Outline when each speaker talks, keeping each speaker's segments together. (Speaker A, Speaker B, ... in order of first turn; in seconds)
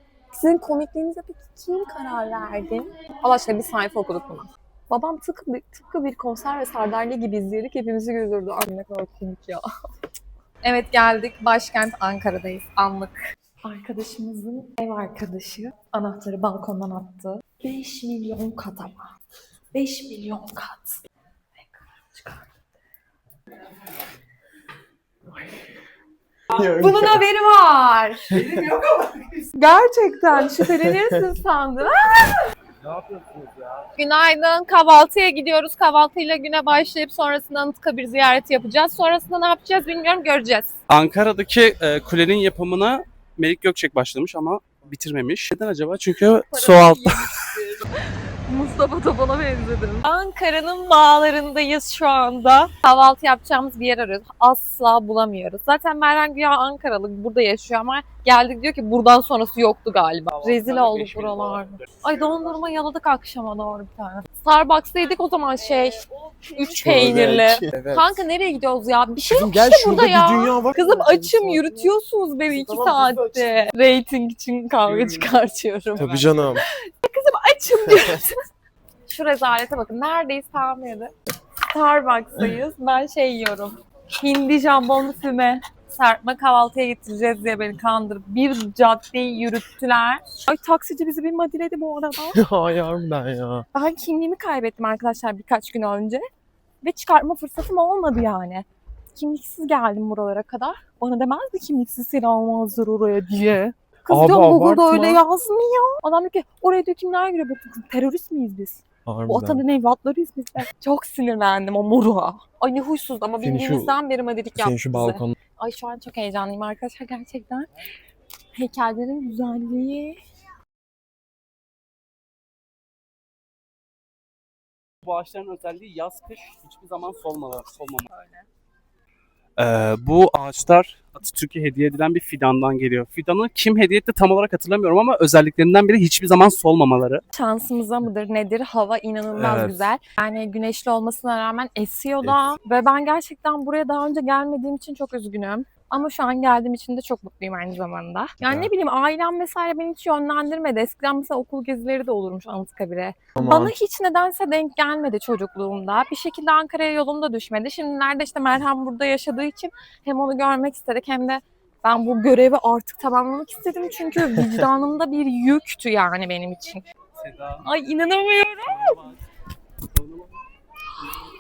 Speaker A: 0.3-9.7, 10.6-19.1, 19.7-21.0, 21.6-22.5, 26.6-32.4, 34.0-40.7, 46.5-78.4, 79.1-81.1, 81.7-92.4, 93.7-96.2, 96.8-117.7, 118.5-120.2, 128.1-128.5, 137.3-166.8, 167.6-169.0
Speaker B: 26.6-27.2, 28.3-28.7, 32.8-33.9, 66.7-68.1, 69.3-71.9, 72.5-73.6, 76.0-76.6, 92.3-93.7, 104.1-105.2, 109.1-109.6, 113.4-114.0, 114.5-115.4, 139.3-139.9, 142.2-142.5, 148.4-148.7, 153.3-153.7, 164.3-164.7
Speaker C: 40.9-47.5, 60.3-62.0, 74.8-75.3, 76.0-76.3, 125.1-128.1, 129.6-137.2, 167.2-167.6, 168.6-169.2, 169.9-170.4